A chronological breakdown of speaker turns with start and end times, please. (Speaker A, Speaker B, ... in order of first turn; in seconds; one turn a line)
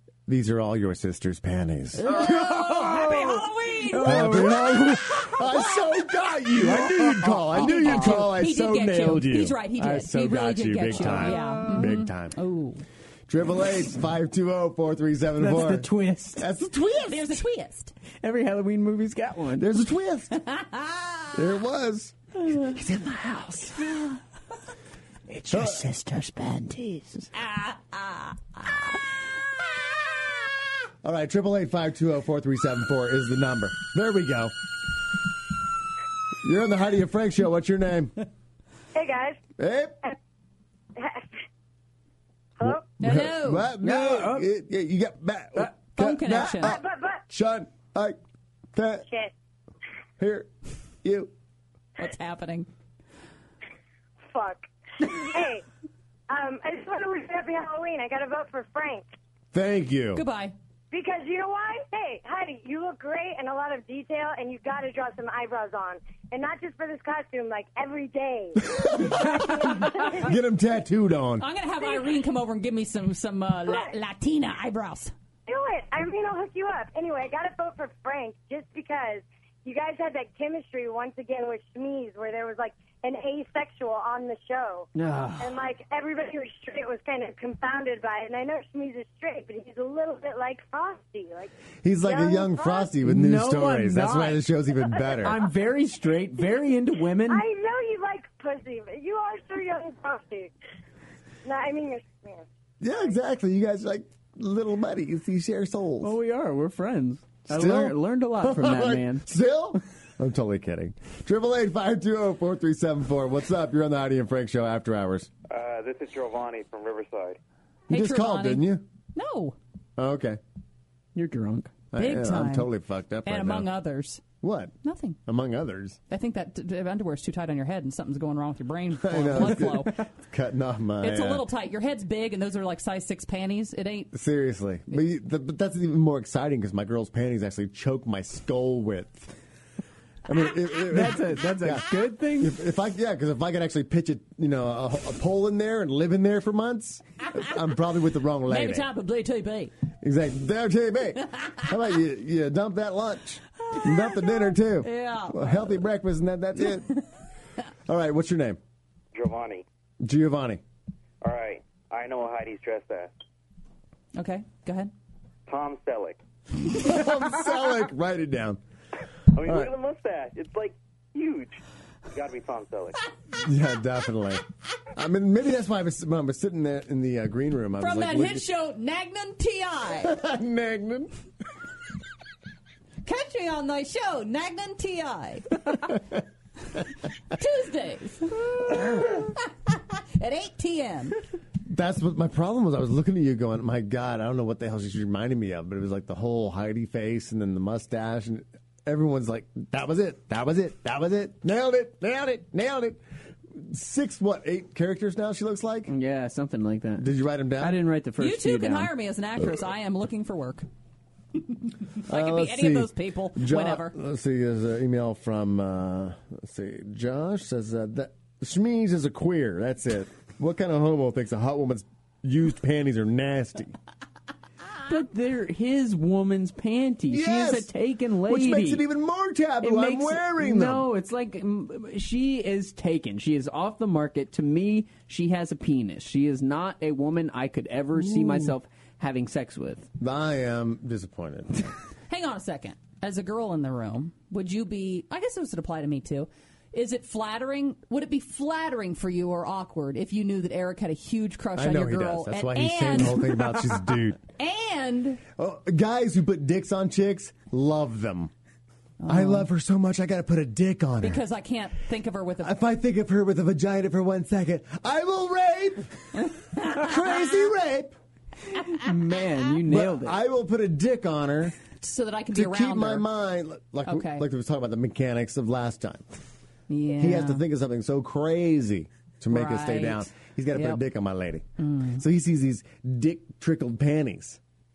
Speaker A: 0.3-3.4
Speaker B: 2.0-5.4
Speaker C: 2.2-3.3
Speaker C: 3.8-5.3
Speaker A: 4.0-12.3
Speaker C: 6.5-8.3
Speaker B: 7.5-12.8
Speaker C: 10.9-11.9
Speaker A: 13.3-17.3
Speaker C: 15.4-16.5
Speaker B: 16.9-17.9
Speaker C: 18.2-19.7
Speaker A: 19.6-20.4
Speaker B: 20.4-21.3
Speaker A: 21.3-23.9
Speaker C: 25.3-27.3
Speaker A: 25.5-25.8
Speaker B: 27.4-28.6
Speaker A: 31.0-34.5
Speaker A: 36.4-38.1
Speaker D: 38.9-39.4
Speaker A: 39.6-39.9
Speaker D: 41.0-41.3
Speaker D: 42.6-42.9
Speaker A: 42.6-48.2
Speaker B: 43.0-43.7
Speaker C: 43.8-44.5
Speaker B: 45.9-46.8
Speaker D: 46.6-47.2
Speaker A: 48.7-49.0
Speaker A: 50.2-50.5
Speaker A: 51.0-51.3
Speaker B: 52.0-52.7
Speaker D: 54.3-55.6
Speaker D: 56.3-59.0
Speaker A: 59.5-60.2
Speaker B: 60.1-60.5
Speaker D: 60.9-70.3
Speaker A: 68.7-69.3
Speaker A: 69.8-71.5
Speaker B: 71.4-75.1
Speaker D: 73.7-73.9
Speaker D: 75.5-84.9
Speaker C: 84.9-85.6
Speaker D: 85.4-92.9
Speaker A: 91.8-95.4
Speaker C: 93.0-94.4
Speaker C: 95.0-97.4
Speaker D: 97.2-100.5
Speaker D: 101.4-103.1
Speaker A: 102.8-106.2
Speaker C: 106.0-109.2
Speaker A: 107.5-115.3
Speaker E: 115.5-117.4
Speaker B: 117.9-119.5
Speaker A: 117.9-118.8
Speaker A: 120.0-120.4
Speaker C: 121.1-121.7
Speaker A: 121.9-123.7
Speaker B: 121.9-122.7
Speaker B: 123.2-124.2
Speaker A: 124.4-124.7
Speaker B: 124.8-125.2
Speaker A: 125.2-126.0
Speaker B: 126.1-129.9
Speaker A: 129.0-131.4
Speaker B: 131.0-134.1
Speaker A: 134.1-139.3
Speaker A: 140.2-148.9
Speaker C: 140.8-142.6
Speaker B: 148.5-149.7
Speaker A: 150.0-156.9
Speaker B: 153.7-155.6
Speaker A: 157.8-158.6
Speaker E: 159.1-159.6
Speaker A: 160.0-160.6
Speaker E: 161.2-163.1
Speaker B: 164.2-164.9
Speaker E: 165.5-166.2
Speaker A: 166.7-168.6
Speaker E: 169.3-171.6
Speaker A: 169.4-169.7
Speaker E: 172.1-172.9
Speaker A: 173.3-174.4
Speaker A: 174.9-178.5
Speaker B: 177.8-180.2
Speaker A: 180.0-181.1
Speaker B: 183.0-185.6
Speaker B: 187.3-191.2
Speaker A: 191.7-203.0
Speaker A: 203.5-205.9
Speaker C: 205.9-208.9
Speaker A: 207.0-207.8
Speaker B: 208.2-210.7
Speaker B: 212.0-213.9
Speaker A: 212.1-223.7
Speaker C: 224.9-228.8
Speaker A: 227.1-227.7
Speaker A: 228.2-230.8
Speaker C: 229.6-239.9
Speaker A: 238.0-238.5
Speaker A: 240.0-241.6
Speaker B: 242.1-253.6
Speaker A: 251.6-254.2
Speaker B: 254.4-255.2
Speaker A: 255.3-258.3
Speaker B: 259.0-259.5
Speaker A: 259.1-261.2
Speaker B: 261.0-262.6
Speaker A: 262.4-267.9
Speaker C: 268.7-270.2
Speaker A: 269.6-271.6
Speaker B: 271.8-273.1
Speaker A: 272.3-276.2
Speaker B: 273.9-274.2
Speaker B: 276.7-277.4
Speaker A: 276.9-284.4
Speaker B: 279.3-280.8
Speaker B: 281.6-282.0